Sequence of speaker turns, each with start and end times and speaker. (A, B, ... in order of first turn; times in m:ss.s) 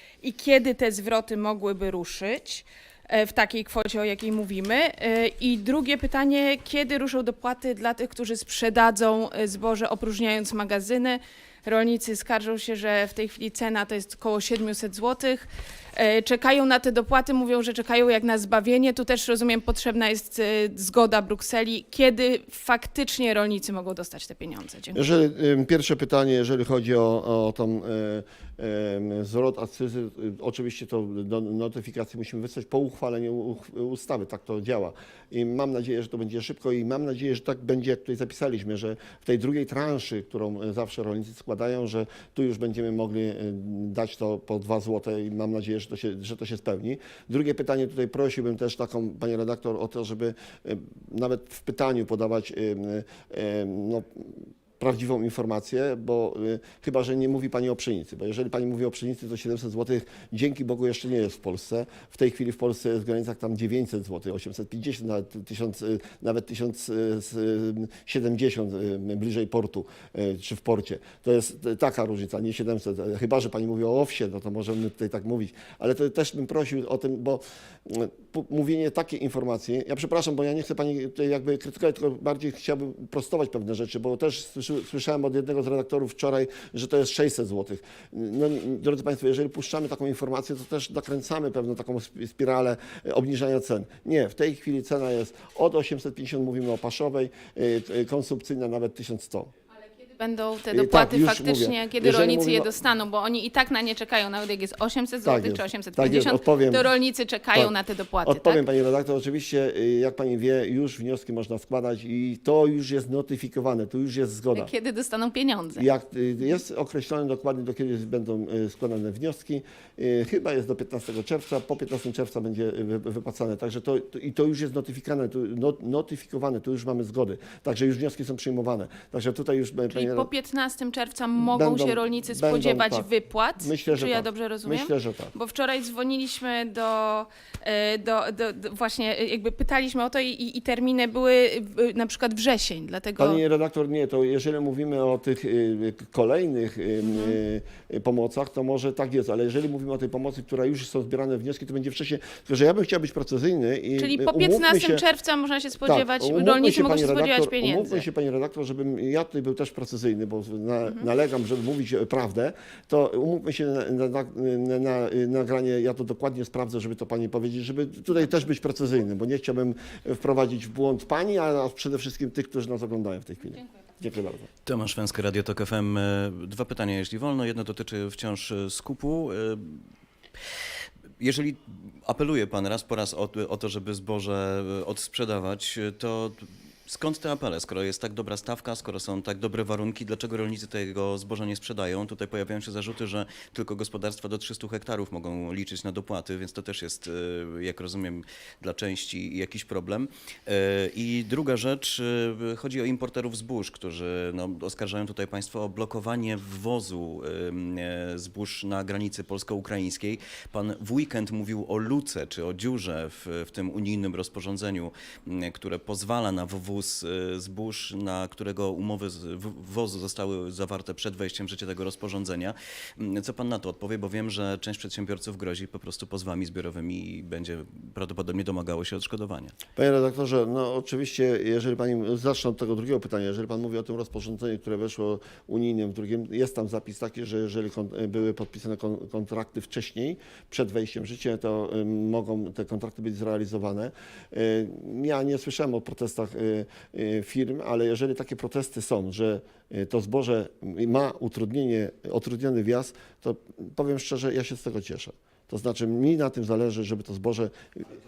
0:00.2-0:25.0 A
0:24.9-1:39.5 B
1:39.9-1:48.6 A
1:40.7-1:42.8 B
1:45.2-1:46.9 B
1:47.5-1:54.7 B
1:54.5-1:55.9 A
1:55.8-2:10.3 B
2:09.9-2:23.4 A
2:11.4-2:15.3 B
2:23.2-2:35.0 B
2:27.1-2:27.4 A
2:34.0-2:38.0 A
2:35.8-2:54.5 B
2:54.6-2:59.9 C
3:01.2-3:49.5 C
3:49.8-4:17.8 B